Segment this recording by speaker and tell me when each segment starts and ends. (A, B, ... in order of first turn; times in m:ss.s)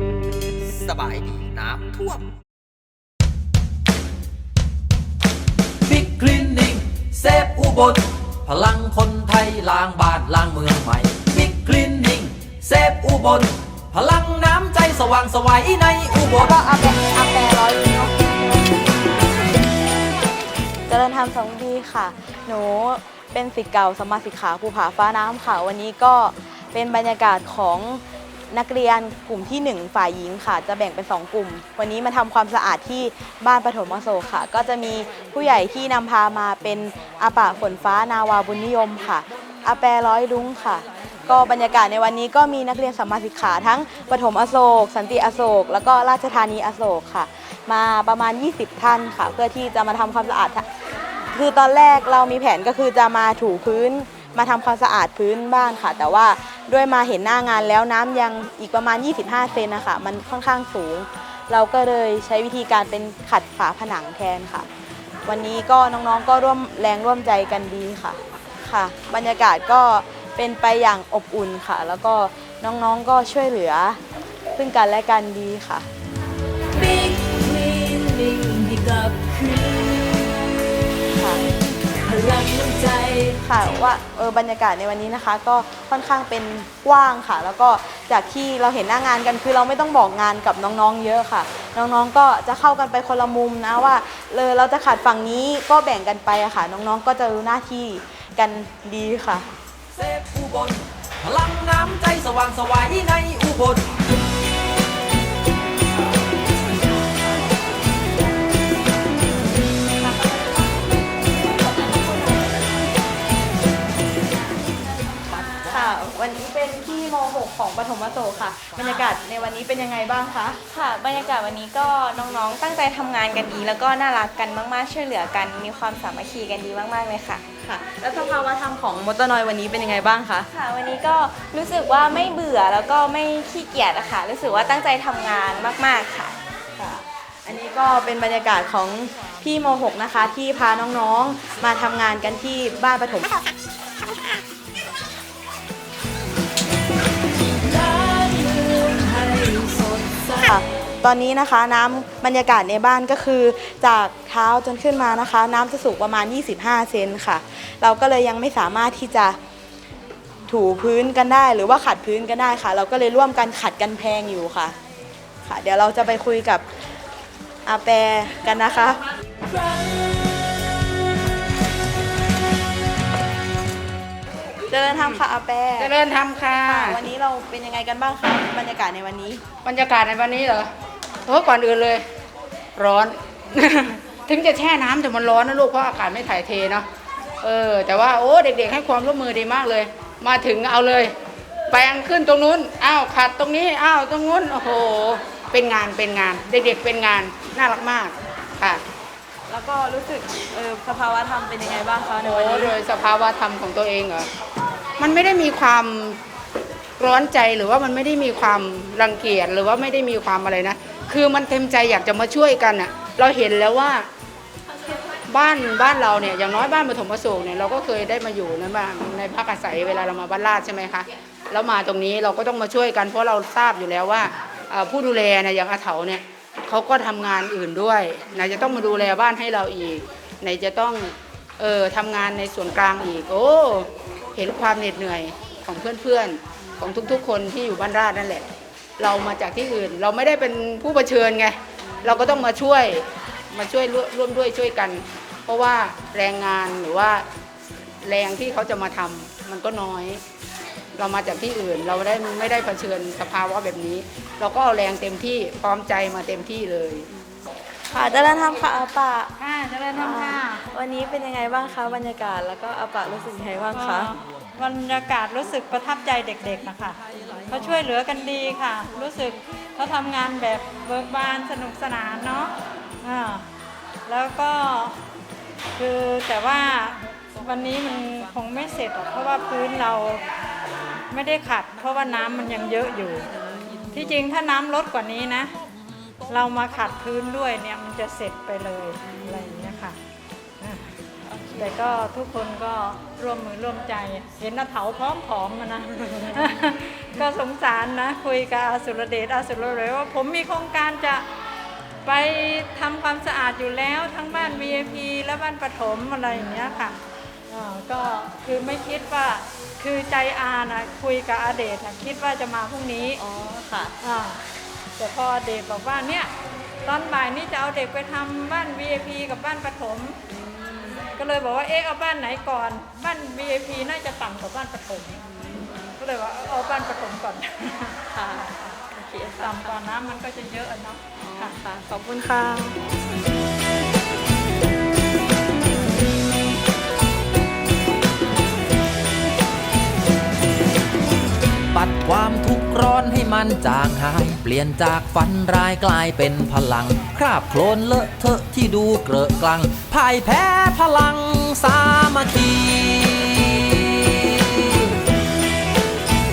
0:00.8-0:02.2 A
0:05.8-0:16.6 A
0:16.4-0:18.7 B
0:20.9-0:50.7 B
0:51.3-1:04.7 B
1:05.2-1:14.0 B
1:14.5-1:15.9 B
1:16.7-1:20.7 C
1:21.0-1:21.4 B
1:21.9-1:23.4 C
1:23.4-1:39.5 B
1:39.9-1:44.0 A
1:55.6-2:00.6 B
2:00.7-2:07.4 D
2:07.5-2:10.5 B
2:10.5-2:16.4 D
2:16.8-2:23.2 B
2:27.6-2:30.5 C
2:30.4-2:39.4 B
2:40.5-2:44.8 B
2:45.4-2:46.8 B
2:47.6-2:49.1 B
2:49.5-2:50.1 C
2:54.7-2:55.9 B
2:55.8-2:57.0 E
2:56.6-2:59.4 B
2:59.6-3:00.7 E
3:01.2-3:02.0 E
3:02.8-3:06.9 E
3:07.4-3:11.1 E
3:11.7-3:18.8 E
3:19.5-3:22.8 B
3:22.2-3:24.3 E
3:25.0-3:26.2 E
3:27.0-3:34.1 E
3:35.3-3:58.5 E
3:59.0-4:07.2 E
4:08.0-4:10.2 E
4:10.9-4:17.1 E
4:17.9-4:19.3 B
4:19.4-4:20.6 F
4:19.9-4:24.1 B
4:23.7-4:33.4 F
4:34.0-4:35.0 F
4:35.7-4:40.2 F
4:41.1-4:43.3 F
4:43.6-4:44.1 B
4:43.9-4:45.5 F
4:46.3-4:50.0 F
4:50.6-4:50.9 F
4:51.3-4:51.7 B
4:51.6-5:01.3 F
5:02.0-5:07.0 F
5:07.5-5:13.2 F
5:13.2-5:13.9 B
5:14.0-5:14.4 F
5:15.0-5:16.3 F
5:16.8-5:20.2 F
5:21.1-5:25.3 F
5:25.8-5:28.1 F
5:28.2-5:29.7 D
5:29.3-5:31.6 F
5:31.3-5:32.8 B
5:41.7-5:54.9 A